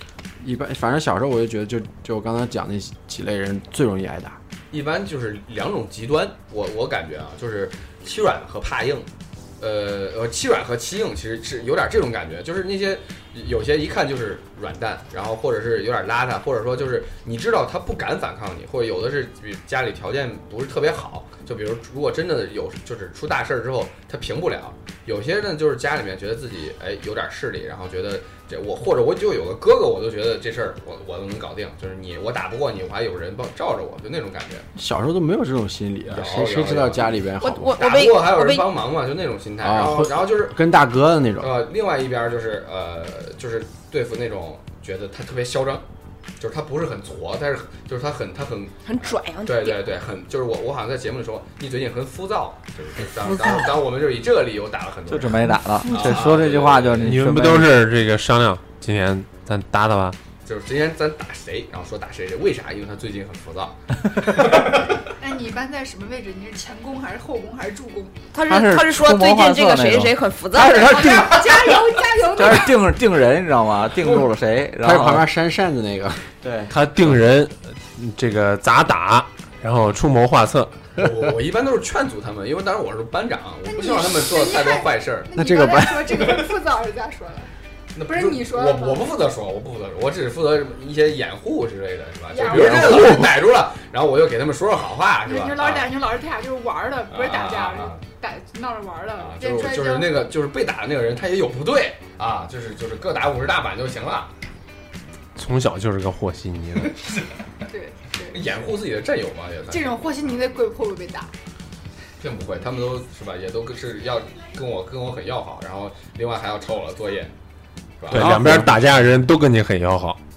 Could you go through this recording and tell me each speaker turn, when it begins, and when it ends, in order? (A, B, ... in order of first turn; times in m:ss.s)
0:00.4-0:04.4 A
0:04.7-0:09.1 B
0:09.6-0:34.6 B
0:34.8-0:37.8 A
0:36.0-0:37.2 B
0:37.4-0:38.8 C
0:37.8-0:40.6 B
0:39.6-0:41.6 A
0:41.4-0:45.8 B
0:46.4-0:57.2 B
0:48.8-0:49.9 C
0:53.3-0:53.8 C
0:55.1-0:57.8 D
0:55.8-0:56.3 C
0:57.0-1:00.2 E
1:00.4-1:04.9 B
1:05.2-1:08.2 F
1:08.3-1:11.3 C
1:08.5-1:15.2 D
1:10.8-1:12.8 F
1:14.8-1:16.3 A
1:16.4-1:16.7 D
1:16.7-1:20.7 E
1:21.0-1:25.3 B
1:23.6-1:27.5 F
1:25.3-1:26.4 A
1:27.9-1:35.9 B
1:28.0-1:29.0 F
1:32.3-1:33.2 F
1:32.5-1:33.3 D
1:35.2-1:40.2 F
1:37.1-1:38.0 B
1:39.2-1:44.3 B
1:45.4-1:47.0 E
1:47.7-1:48.4 F
1:48.3-1:50.0 B
1:49.7-1:51.3 F
1:52.2-1:57.3 B
1:58.0-1:58.6 B
1:58.1-2:00.2 E
1:58.1-1:58.8 D